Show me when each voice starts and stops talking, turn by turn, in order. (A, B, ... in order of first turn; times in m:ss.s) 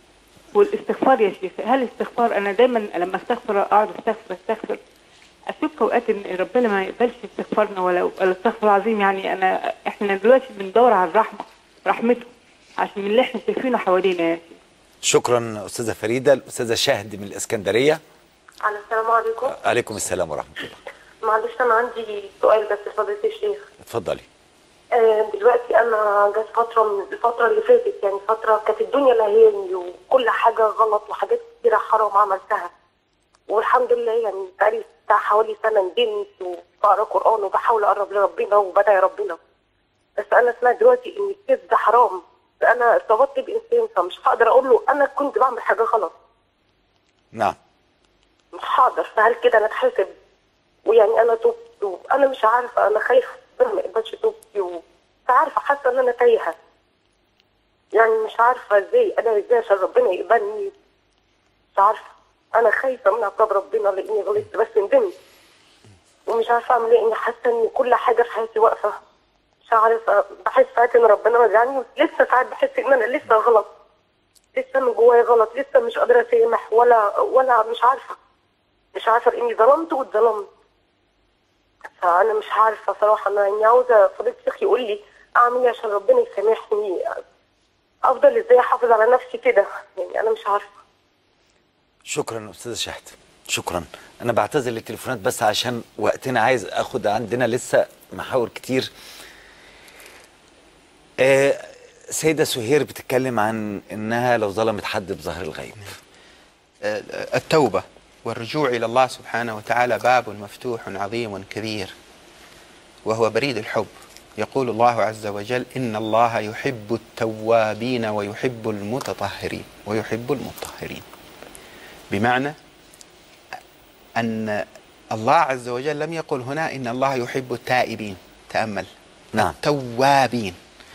0:00.5-0:04.8 A
0:05.5-0:12.3 A
0:12.8-0:14.6 A
0:15.0-0:18.0 B
0:18.6-0:19.6 C
0:19.5-0:20.8 B
0:21.2-0:23.6 C
0:23.9-0:24.3 B
0:24.9-0:32.7 C
0:33.5-0:39.4 C
0:40.2-0:46.1 C
0:48.5-0:50.1 C
0:50.9-0:56.6 C
0:57.9-1:00.7 C
1:01.8-1:05.1 C
1:06.3-1:09.0 C
1:09.7-1:13.7 C
1:14.6-1:18.2 C
1:18.9-1:20.5 C
1:22.0-1:27.2 C
1:28.0-1:30.7 C
1:32.1-1:38.9 B
1:41.2-1:45.9 B
1:46.8-1:51.9 D
1:53.1-2:01.0 D
2:02.1-2:02.6 D
2:04.2-2:08.9 D
2:09.4-2:10.6 D